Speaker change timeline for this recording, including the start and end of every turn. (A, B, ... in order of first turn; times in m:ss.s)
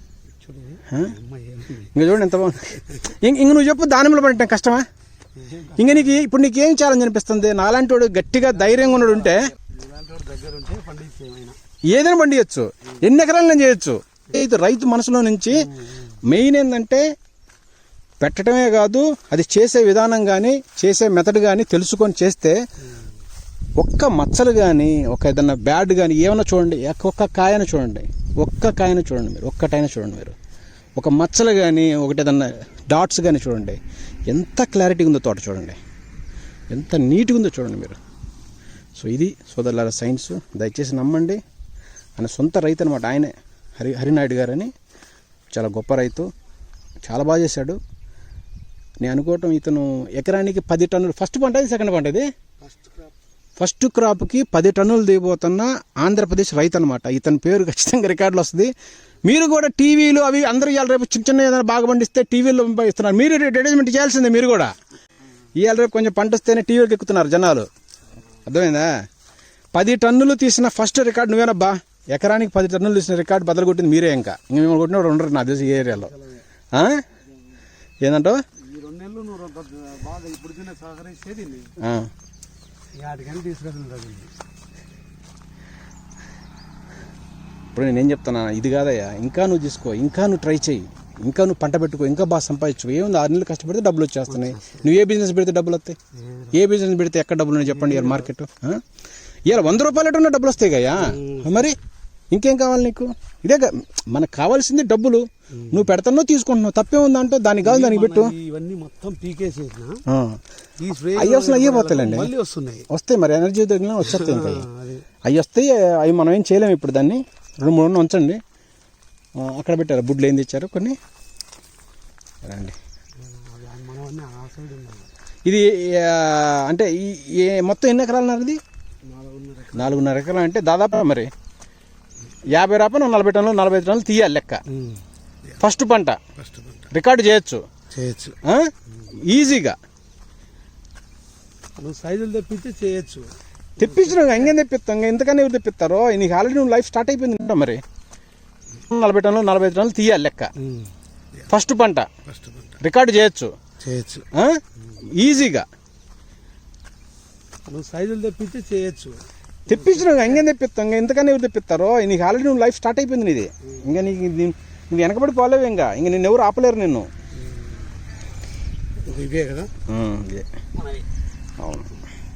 0:00.4-0:01.9 A
0:00.9-0:01.1 B
0:01.9-0:04.9 B
0:05.4-0:06.2 A
0:05.8-0:09.4 B
0:08.4-0:11.6 A
0:11.9-0:15.7 B
0:16.2-0:17.0 B
0:18.2-0:22.6 B
0:23.8-0:30.3 B
0:31.0-0:35.8 B
0:36.7-0:38.0 B
0:39.0-0:41.4 B
0:42.2-0:44.7 B
0:45.5-0:46.3 B
0:47.0-0:47.8 B
0:49.0-0:52.2 B
0:52.6-0:53.1 A
0:53.6-0:58.7 B
0:59.2-1:04.7 B
1:05.6-1:07.7 B
1:08.4-1:08.9 B
1:09.7-1:16.1 B
1:15.7-1:16.4 A
1:16.7-1:17.0 B
1:18.0-1:18.4 B
1:18.6-1:21.7 A
1:21.8-1:22.1 B
1:23.0-1:24.3 A
1:27.7-1:36.0 B
1:34.3-1:34.8 A
1:36.1-1:36.6 A
1:36.5-1:38.8 B
1:37.6-1:38.3 A
1:39.4-1:41.8 B
1:41.0-1:41.7 A
1:42.3-1:48.3 B
1:47.6-1:50.0 A
1:50.1-1:50.4 B
1:50.8-1:52.9 A
1:51.1-1:52.3 B
1:52.9-1:54.7 B
1:54.0-1:55.0 A
1:55.2-1:58.4 B
1:59.4-2:01.0 B
2:02.4-2:02.8 B
2:03.2-2:05.1 A
2:05.4-2:08.6 B
2:09.0-2:10.1 A
2:09.7-2:11.3 B
2:12.5-2:14.6 B
2:14.7-2:15.0 A
2:15.6-2:16.2 B
2:16.3-2:16.9 A
2:16.9-2:17.6 B
2:17.9-2:18.4 A
2:18.4-2:18.7 B
2:19.2-2:19.8 B
2:21.8-2:23.2 A
2:23.8-2:24.6 A
2:23.8-2:27.8 B
2:28.9-2:30.5 B
2:30.6-2:30.9 A
2:31.5-2:32.1 B
2:32.2-2:32.8 A
2:32.8-2:33.5 B
2:33.8-2:34.3 A
2:34.3-2:34.6 B
2:35.1-2:35.6 B
2:37.7-2:40.4 A
2:39.7-2:47.1 B
2:47.4-2:47.9 A
2:49.0-2:49.7 A
2:49.9-2:50.5 B
2:50.8-2:51.0 A
2:51.6-2:51.9 B